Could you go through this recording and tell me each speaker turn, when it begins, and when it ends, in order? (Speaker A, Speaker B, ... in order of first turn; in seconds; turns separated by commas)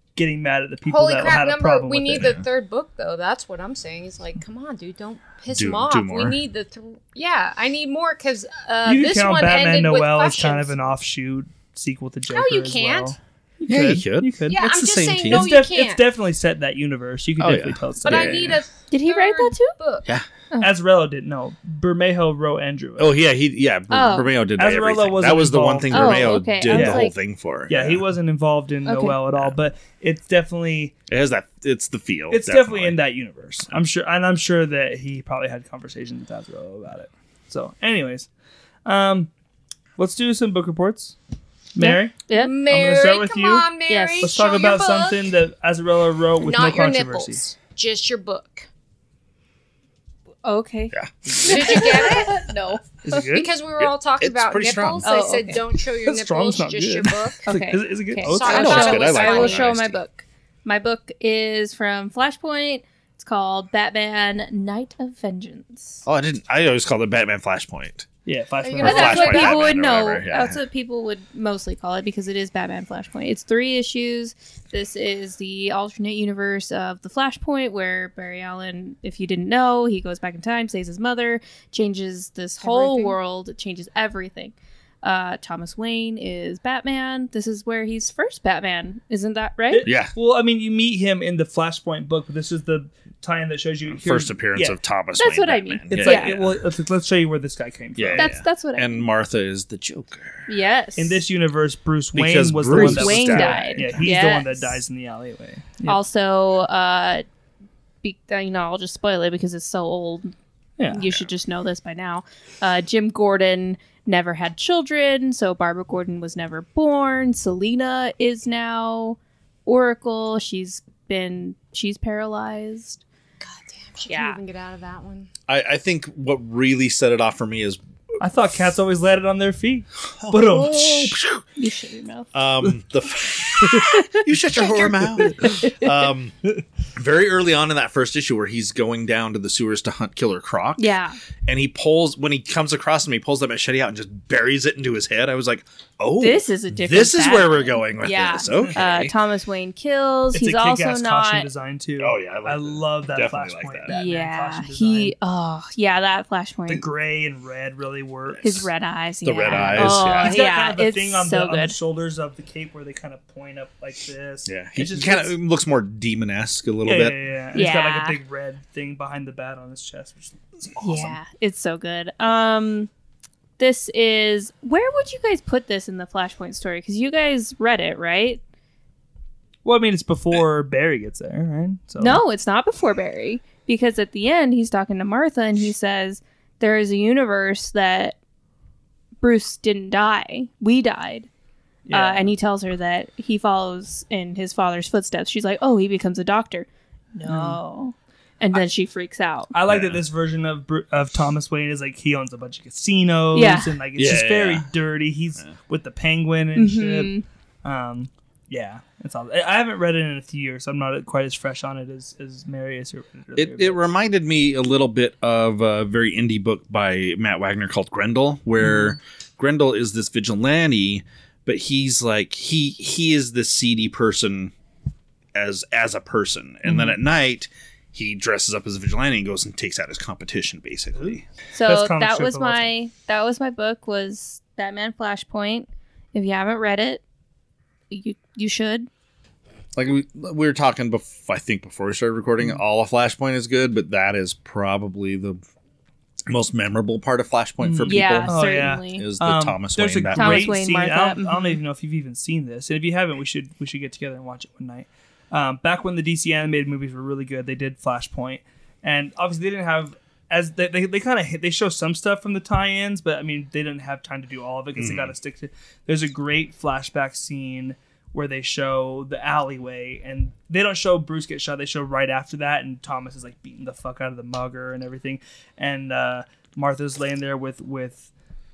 Speaker A: 0.2-2.4, Speaker B: 0.9-10.8, Speaker C: 2.2-2.4, Speaker C: 5.5-6.4, Speaker A: 8.8-14.6, Speaker B: 12.3-13.2, Speaker C: 13.6-15.6, Speaker B: 14.5-16.0, Speaker A: 15.3-18.5, Speaker C: 17.4-18.6, Speaker B: 18.0-20.1, Speaker D: 18.9-19.8, Speaker A: 20.6-23.1, Speaker C: 23.0-28.0, Speaker D: 23.9-24.3, Speaker A: 24.6-27.1, Speaker D: 25.9-27.1, Speaker A: 27.7-30.9, Speaker D: 28.9-29.2, Speaker C: 31.1-33.0, Speaker A: 32.3-38.3, Speaker A: 38.9-39.3, Speaker A: 40.0-41.2, Speaker A: 41.8-43.7, Speaker D: 41.8-42.5, Speaker B: 42.3-45.3, Speaker D: 43.9-44.3, Speaker A: 44.2-47.4, Speaker B: 46.4-48.7, Speaker D: 50.4-52.8, Speaker A: 51.3-51.8, Speaker B: 51.4-52.5, Speaker A: 53.0-53.5, Speaker B: 53.3-57.5, Speaker C: 53.8-55.1, Speaker D: 55.0-55.6, Speaker A: 56.0-58.9, Speaker D: 57.5-66.0, Speaker B: 58.2-59.7, Speaker C: 58.4-60.0, Speaker C: 66.0-68.1, Speaker A: 68.3-69.5, Speaker B: 68.6-69.5, Speaker C: 68.8-70.6, Speaker D: 68.8-89.9, Speaker B: 82.6-83.2, Speaker A: 89.7-94.8, Speaker C: 89.8-90.1, Speaker C: 93.9-96.6, Speaker D: 95.2-96.4, Speaker A: 95.9-98.3, Speaker C: 98.0-100.5, Speaker D: 98.2-99.1, Speaker D: 100.5-101.2, Speaker A: 101.0-106.0, Speaker C: 102.1-104.1, Speaker D: 102.7-104.7, Speaker D: 105.9-107.2, Speaker D: 108.0-110.3, Speaker D: 110.9-123.0, Speaker B: 123.4-125.3, Speaker D: 124.1-124.4, Speaker C: 125.5-127.8, Speaker A: 128.2-131.2, Speaker C: 130.2-131.4, Speaker D: 131.6-132.3, Speaker C: 132.3-136.3, Speaker D: 133.8-135.8, Speaker A: 135.2-135.6, Speaker C: 136.9-140.9, Speaker D: 140.8-141.2, Speaker C: 141.4-149.1, Speaker D: 146.2-151.5, Speaker A: 150.3-155.2, Speaker C: 152.0-153.9, Speaker D: 153.9-156.9, Speaker A: 156.7-158.6, Speaker D: 158.4-161.8, Speaker C: 159.2-160.4, Speaker A: 159.5-165.3, Speaker C: 164.5-167.2, Speaker A: 166.8-171.1, Speaker D: 167.6-168.2, Speaker C: 170.8-171.1, Speaker D: 170.8-172.9, Speaker D: 173.6-178.4, Speaker A: 179.7-182.2, Speaker D: 182.0-188.2, Speaker D: 189.2-191.3, Speaker A: 191.9-192.3, Speaker D: 191.9-199.5, Speaker A: 197.2-197.6, Speaker A: 199.5-213.9, Speaker C: 199.7-200.0, Speaker D: 203.3-203.8, Speaker C: 204.0-204.7, Speaker D: 206.6-207.2, Speaker C: 213.3-224.5, Speaker A: 218.6-218.9, Speaker C: 225.3-231.2, Speaker A: 230.9-232.7, Speaker D: 231.5-237.0, Speaker D: 237.9-238.9, Speaker C: 239.8-245.4, Speaker C: 246.3-250.6, Speaker A: 247.6-278.1, Speaker D: 247.9-249.1, Speaker D: 250.2-251.6, Speaker C: 264.8-265.1